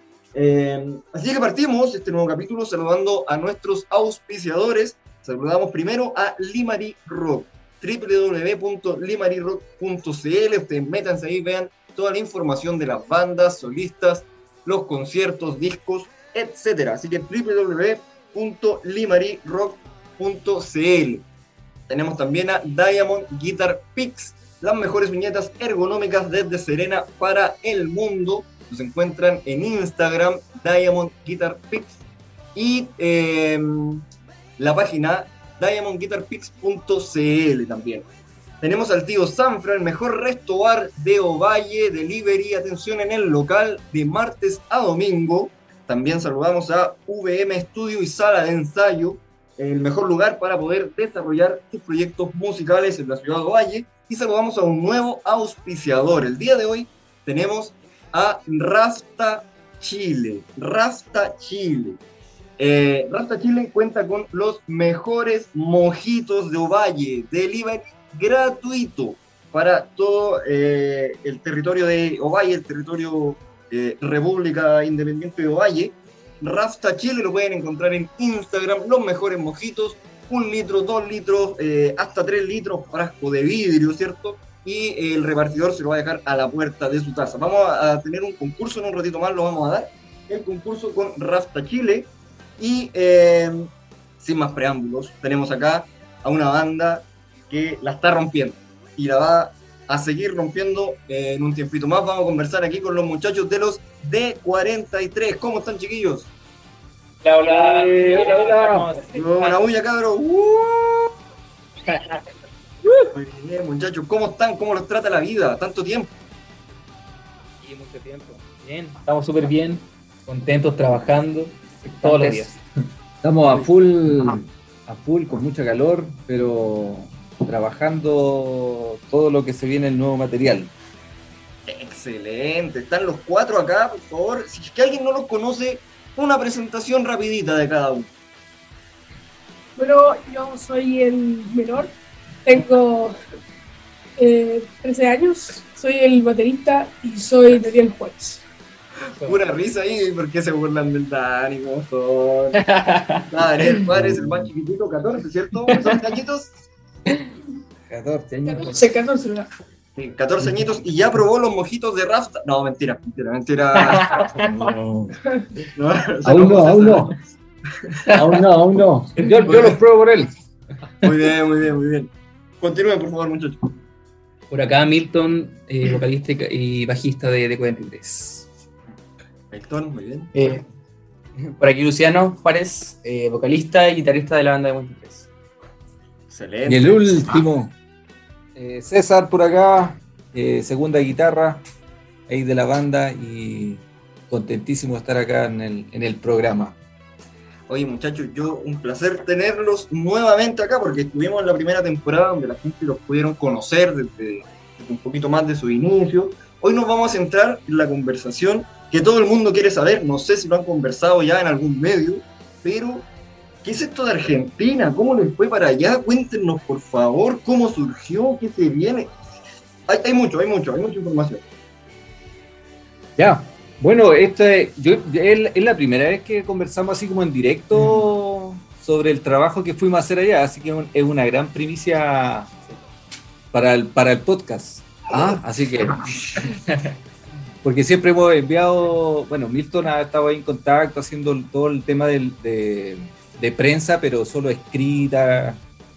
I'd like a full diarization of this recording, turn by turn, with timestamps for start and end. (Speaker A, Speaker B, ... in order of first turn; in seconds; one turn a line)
Speaker A: 0.3-21.2
Speaker A: 21.9-31.9
Speaker A: 32.5-34.0
Speaker A: 34.6-38.1
Speaker A: 38.6-62.0
Speaker A: 62.6-106.3
Speaker B: 107.2-109.6
Speaker C: 107.5-108.9
Speaker A: 109.2-111.1
Speaker A: 113.1-116.1
Speaker B: 117.6-122.6
Speaker D: 122.0-122.4
Speaker C: 123.2-130.7
Speaker A: 131.7-138.1
Speaker E: 139.8-141.9
Speaker E: 142.4-143.2
Speaker E: 144.2-148.4
Speaker A: 149.2-152.7
Speaker B: 152.6-153.3
Speaker A: 153.3-156.5
Speaker C: 153.9-154.5
Speaker B: 155.7-156.0
Speaker C: 157.9-158.8
Speaker B: 158.3-158.7
Speaker E: 158.4-159.5
Speaker A: 160.0-164.1
Speaker C: 164.3-165.2
Speaker A: 165.8-167.1
Speaker C: 166.2-167.1
Speaker C: 168.1-170.3
Speaker A: 169.4-169.8
Speaker A: 171.0-173.7
Speaker B: 174.5-178.5
Speaker A: 179.5-180.3
Speaker D: 180.3-180.6
Speaker D: 181.5-185.3
Speaker A: 186.3-187.2
Speaker C: 186.7-187.8
Speaker C: 188.6-191.6
Speaker C: 192.3-196.8
Speaker A: 197.7-213.1
Speaker A: 213.6-219.2
Speaker A: 219.9-221.4
Speaker C: 223.2-232.5
Speaker C: 233.5-236.5
Speaker C: 237.6-245.6